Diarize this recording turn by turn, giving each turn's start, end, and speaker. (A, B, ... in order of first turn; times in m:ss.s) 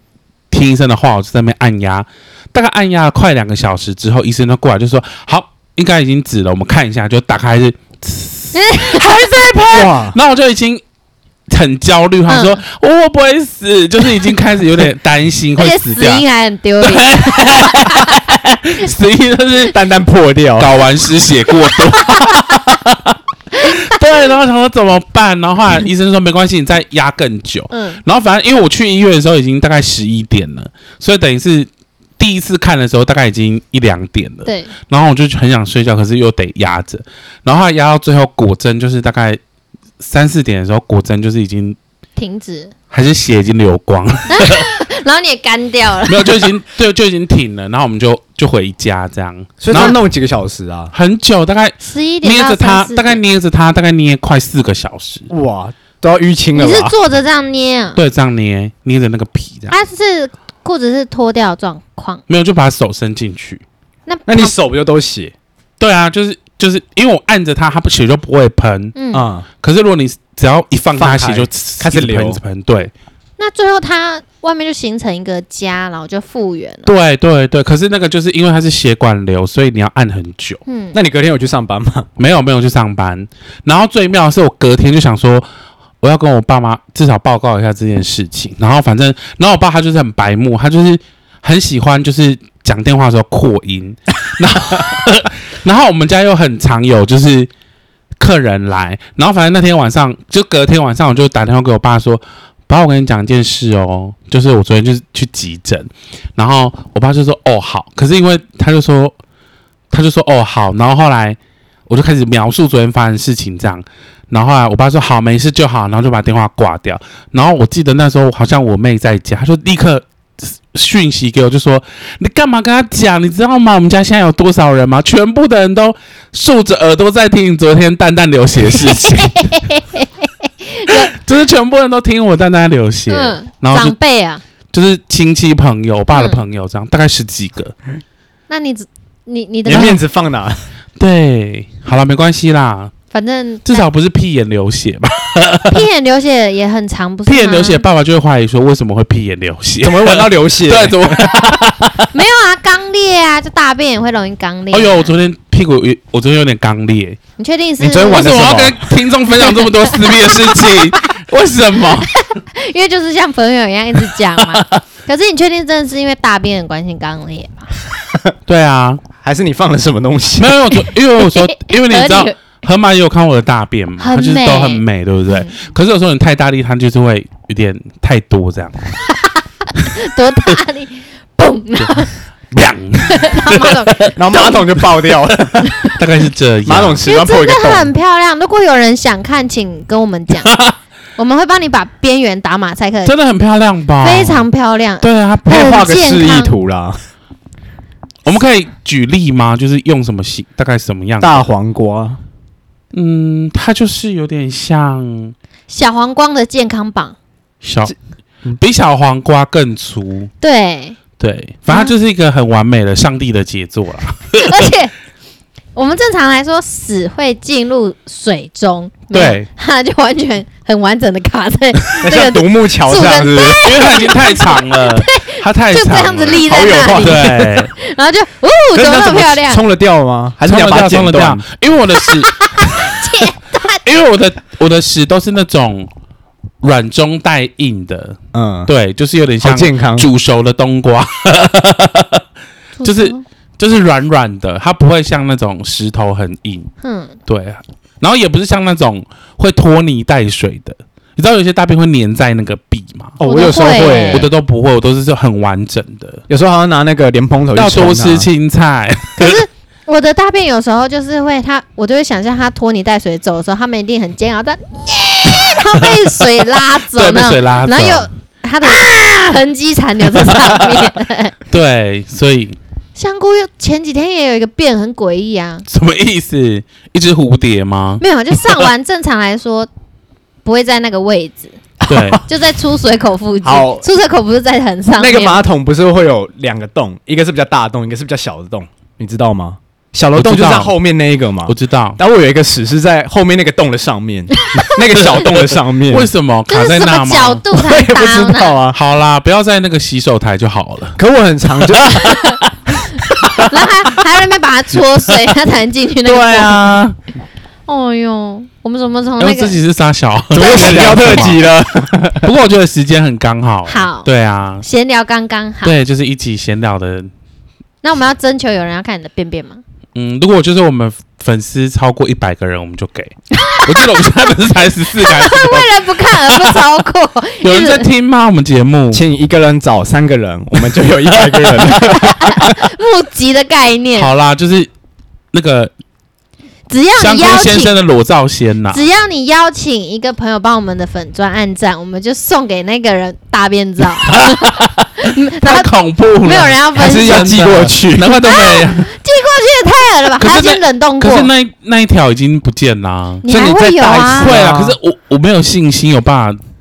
0:00.5-0:10.8 A
0:08.5-0:09.5 B
0:09.7-0:10.2 C
0:11.5-0:16.2 A
0:12.3-0:12.6 B
0:15.6-0:18.2 B
0:16.8-0:19.8 A
0:19.7-0:20.8 C
0:20.6-0:39.4 A
0:21.7-0:22.6 B
0:23.6-0:24.0 B
0:27.7-0:28.0 B
0:34.4-0:34.7 B
0:40.0-0:41.8 A
0:42.2-0:42.7 B
0:42.9-0:44.7 A
0:44.3-0:46.5 B
0:46.1-0:50.0 A
0:49.6-0:50.9 C
0:50.9-0:55.3 A
0:51.8-0:53.2 B
0:55.3-0:56.9 C
0:56.6-0:58.0 B
0:58.0-0:59.8 A
0:59.7-1:02.2 B
1:02.3-1:03.6 A
1:04.1-1:04.6 B
1:04.3-1:05.3 C
1:05.8-1:09.0 A
1:08.9-1:09.3 B
1:09.1-1:09.5 C
1:09.6-1:12.9 A
1:11.0-1:12.4 C
1:13.4-1:16.9 B
1:16.8-1:20.6 A
1:20.6-1:21.0 B
1:20.9-1:22.1 C
1:22.2-1:25.4 A
1:26.0-1:37.5 A
1:38.2-1:49.1 A
1:49.9-2:09.6 A
2:08.8-2:11.1 B
2:10.9-2:14.0 A
2:13.1-2:14.4 B
2:14.7-2:17.7 A
2:16.1-2:16.4 B
2:18.5-2:20.0 B
2:19.6-2:20.6 C
2:21.0-2:22.9 A
2:23.1-2:23.9 B
2:23.6-2:25.8 A
2:25.7-2:27.8 B
2:27.3-2:32.1 A
2:29.8-2:31.4 C
2:32.1-2:35.1 B
2:34.7-2:37.2 A
2:37.4-2:38.5 B
2:37.8-2:38.9 C
2:38.0-2:42.2 A
2:39.4-2:41.0 B
2:42.0-2:47.7 B
2:44.4-2:44.8 A
2:48.5-2:49.0 A
2:49.2-2:50.6 C
2:50.4-2:58.8 A
2:50.7-2:52.3 B
2:54.0-2:55.5 B
2:59.0-3:02.1 B
3:01.8-3:07.1 A
3:03.0-3:04.5 B
3:04.2-3:05.7 C
3:06.6-3:07.9 C
3:07.0-3:10.6 B
3:11.2-3:13.1 B
3:13.0-3:14.5 A
3:14.0-3:16.6 B
3:15.0-3:15.8 A
3:15.5-3:17.0 C
3:18.2-3:21.4 A
3:21.2-3:22.2 C
3:22.9-3:25.3 A
3:25.7-3:27.2 B
3:27.6-3:27.9 A
3:28.5-3:30.3 A
3:30.4-3:31.0 B
3:31.2-3:34.7 A
3:34.4-3:34.9 B
3:35.7-3:49.6 B
3:39.1-3:39.5 A
3:42.0-3:43.8 C
3:43.6-3:47.7 A
3:46.3-3:47.7 C
3:48.8-3:49.2 A
3:48.8-3:51.4 C
3:50.4-3:53.0 A
3:52.0-3:53.8 B
3:53.8-3:55.9 A
3:56.6-4:02.2 A
3:58.3-3:58.7 C
3:59.4-4:00.1 C
4:02.8-4:03.2 B
4:02.8-4:06.7 A
4:06.8-4:07.2 B
4:07.3-4:16.2 A
4:13.2-4:14.3 C
4:13.2-4:14.3 B
4:16.3-4:18.3 C
4:17.5-4:19.4 A
4:19.2-4:31.4 B
4:26.9-4:28.1 A
4:30.2-4:30.8 A
4:31.5-4:32.6 A
4:33.0-4:35.6 B
4:35.7-4:38.7 A
4:38.0-4:39.7 B
4:40.4-4:41.6 B
4:41.8-4:42.2 C
4:41.9-4:42.2 A
4:42.2-4:45.4 B
4:43.4-4:43.8 C
4:45.0-4:56.1 C
4:50.2-4:50.7 A
4:51.4-4:52.0 A
4:54.4-4:54.7 B
4:55.0-4:57.4 A
4:56.5-4:58.6 B
4:57.5-4:58.8 C
4:58.7-5:01.0 A
5:01.0-5:02.0 C
5:01.7-5:02.0 A
5:01.9-5:02.4 B
5:03.4-5:06.6 B
5:06.1-5:06.8 C
5:06.2-5:07.0 A
5:07.7-5:09.6 B
5:09.2-5:11.4 A
5:10.3-5:12.3 C
5:12.2-5:14.6 A
5:13.6-5:14.1 B
5:14.6-5:15.8 B
5:15.6-5:17.1 A
5:17.8-5:19.6 B
5:19.9-5:26.6 A
5:23.3-5:24.3 B
5:25.0-5:27.9 B
5:27.4-5:29.0 A
5:28.9-5:32.6 C
5:31.0-5:32.0 A
5:31.7-5:34.1 B
5:33.9-5:34.7 A
5:35.3-5:35.7 A
5:36.7-5:37.8 B
5:37.0-5:38.8 A
5:38.7-5:45.7 B
5:44.0-5:48.9 A
5:46.2-5:47.5 B
5:46.8-5:48.2 C
5:48.2-5:51.3 B
5:50.2-5:56.4 A
5:53.2-5:54.3 B
5:54.1-5:54.8 C